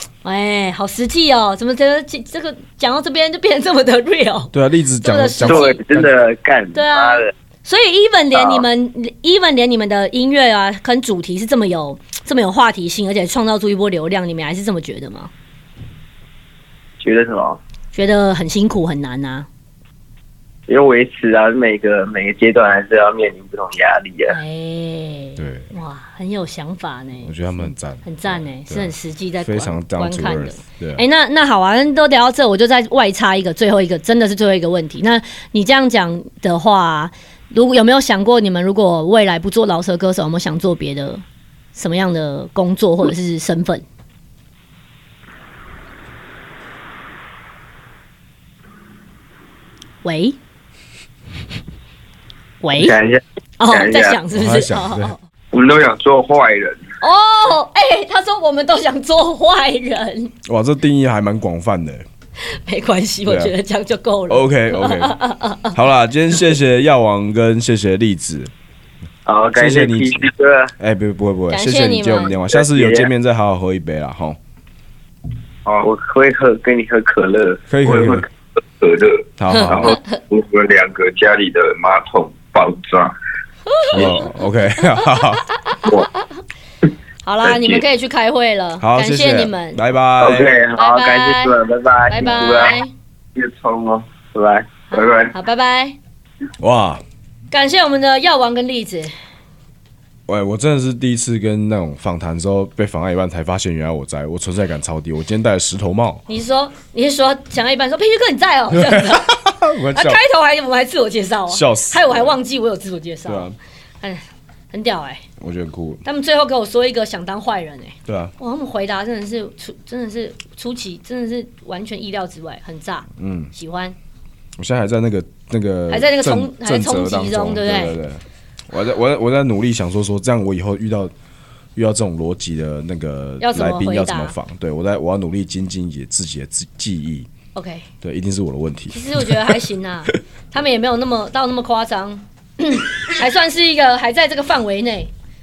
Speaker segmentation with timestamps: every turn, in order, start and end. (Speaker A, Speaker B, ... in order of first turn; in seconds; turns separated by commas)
Speaker A: 0.2-5.8, Speaker B: 4.5-6.1, Speaker C: 5.5-7.3, Speaker A: 6.8-15.3, Speaker C: 8.3-8.7, Speaker C: 17.0-17.6, Speaker A: 17.9-19.5, Speaker C: 20.7-24.4, Speaker A: 24.3-27.3, Speaker B: 25.4-25.7, Speaker B: 27.2-31.0, Speaker A: 28.0-41.2, Speaker A: 41.8-43.8, Speaker A: 50.0-50.4, Speaker A: 52.6-53.0, Speaker C: 52.8-54.2, Speaker A: 53.6-55.2, Speaker B: 54.3-55.1, Speaker D: 55.5-56.8, Speaker A: 57.0-60.3, Speaker B: 60.5-62.0, Speaker A: 62.5-65.8, Speaker B: 63.2-63.5, Speaker B: 64.3-65.2, Speaker B: 65.7-68.5, Speaker C: 69.3-70.7, Speaker B: 69.6-70.3, Speaker B: 70.8-74.4, Speaker A: 71.5-72.4, Speaker C: 72.5-73.1, Speaker C: 75.8-77.6, Speaker B: 77.7-78.3, Speaker D: 77.8-83.1, Speaker B: 79.4-80.0, Speaker A: 83.7-84.3, Speaker B: 83.9-85.4, Speaker D: 84.0-84.3, Speaker A: 85.0-86.2, Speaker A: 87.2-89.8, Speaker D: 87.5-87.8, Speaker B: 88.8-90.6, Speaker C: 90.2-92.8, Speaker A: 90.8-92.9, Speaker D: 93.4-94.0, Speaker C: 94.3-95.3, Speaker A: 94.9-96.0, Speaker B: 96.6-97.0, Speaker A: 97.5-99.1, Speaker B: 100.3-106.2, Speaker A: 106.3-109.4, Speaker B: 108.7-110.2, Speaker A: 109.9-113.5, Speaker B: 111.5-112.3, Speaker B: 113.3-113.5, Speaker A: 114.0-115.2, Speaker B: 115.4-116.0, Speaker A: 116.0-124.0, Speaker B: 118.1-118.3, Speaker B: 123.2-123.5, Speaker B: 124.6-131.1, Speaker A: 125.9-128.0, Speaker B: 131.8-137.3, Speaker A: 133.4-134.4, Speaker A: 137.5-137.9, Speaker B: 138.0-139.6, Speaker A: 138.9-145.1